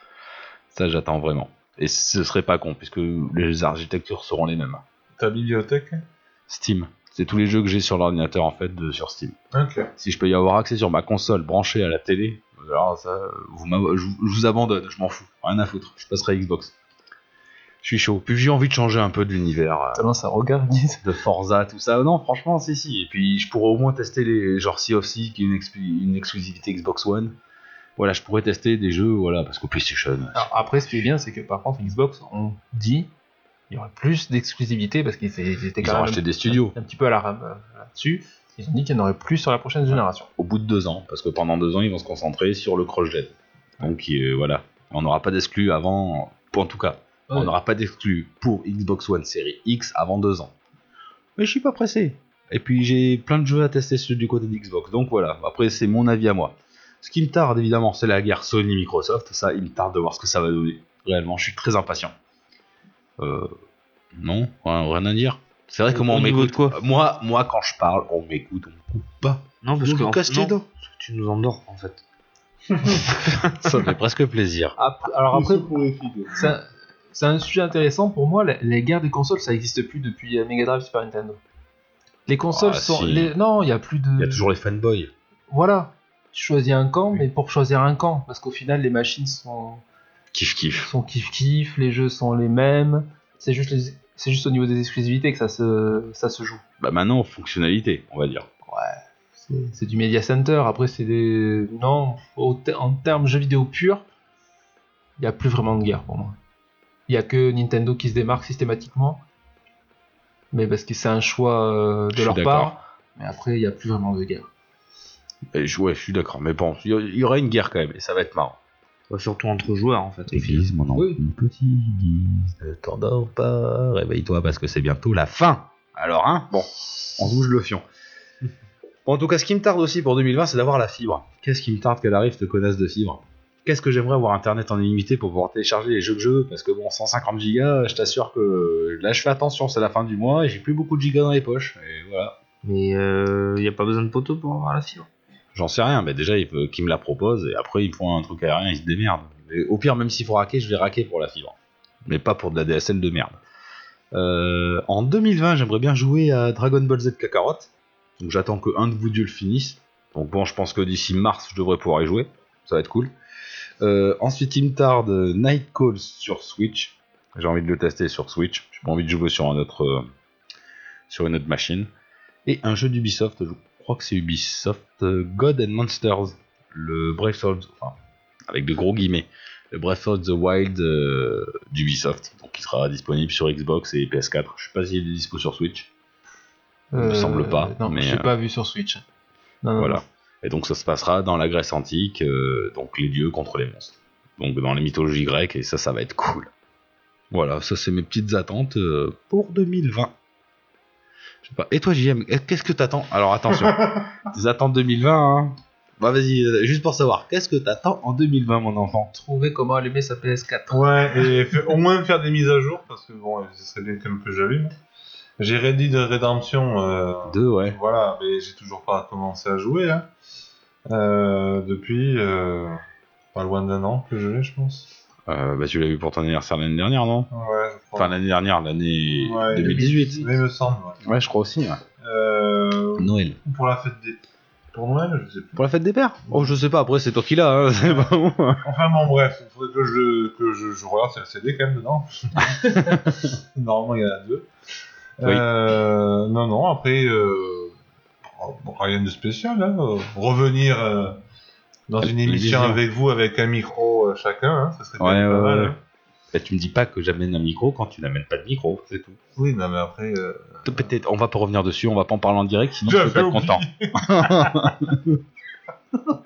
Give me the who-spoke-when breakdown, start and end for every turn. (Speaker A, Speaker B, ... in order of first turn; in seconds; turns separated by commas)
Speaker A: 0.7-4.8, Speaker B: 5.2-6.0, Speaker A: 6.5-9.4, Speaker B: 9.5-9.9, Speaker A: 10.0-16.7, Speaker A: 17.8-20.0, Speaker C: 19.9-21.1, Speaker A: 21.0-27.4, Speaker A: 28.0-30.8, Speaker C: 30.3-33.1, Speaker C: 33.7-40.3, Speaker A: 35.8-36.8, Speaker A: 39.9-50.5, Speaker C: 47.3-47.5, Speaker A: 51.4-62.1, Speaker A: 63.2-63.5, Speaker A: 64.2-70.6, Speaker D: 65.9-66.8, Speaker D: 69.6-72.0, Speaker A: 73.0-74.8, Speaker D: 73.1-73.7, Speaker C: 74.8-75.7, Speaker B: 75.3-76.5, Speaker C: 76.3-81.4, Speaker C: 82.3-84.5, Speaker A: 82.5-83.3, Speaker A: 84.2-85.1, Speaker C: 85.5-89.8, Speaker A: 90.3-90.9, Speaker C: 90.8-96.6, Speaker A: 96.8-98.5, Speaker C: 98.7-104.1, Speaker C: 105.2-106.4, Speaker C: 107.1-109.2, Speaker C: 110.5-114.5, Speaker A: 112.1-112.7, Speaker A: 115.5-118.6, Speaker D: 119.1-120.7, Speaker A: 120.3-127.8, Speaker C: 120.9-121.2, Speaker A: 129.1-142.4, Speaker D: 142.6-145.1, Speaker A: 145.6-153.4, Speaker A: 154.1-163.1, Speaker A: 163.8-170.1, Speaker A: 171.1-171.9, Speaker A: 172.4-185.9, Speaker C: 186.9-189.0, Speaker A: 187.0-188.3, Speaker C: 189.6-190.0, Speaker A: 189.8-196.5, Speaker A: 197.3-200.1, Speaker A: 201.4-209.1, Speaker B: 203.6-204.1, Speaker C: 209.1-211.3, Speaker B: 210.7-214.7, Speaker B: 215.4-220.1, Speaker A: 217.3-217.8, Speaker B: 220.9-222.8, Speaker B: 223.3-224.9, Speaker A: 225.3-227.3, Speaker B: 227.3-228.2, Speaker A: 227.9-230.3, Speaker B: 229.2-231.0, Speaker A: 231.0-231.8, Speaker B: 232.0-235.7, Speaker A: 233.0-233.4, Speaker A: 235.6-238.6, Speaker B: 238.6-244.5, Speaker C: 242.6-242.9, Speaker A: 242.9-243.2, Speaker B: 245.2-251.2, Speaker B: 251.9-255.8, Speaker A: 252.0-252.8, Speaker A: 255.0-255.8, Speaker A: 256.3-259.2, Speaker B: 259.4-260.7, Speaker A: 260.6-265.2, Speaker B: 262.8-264.8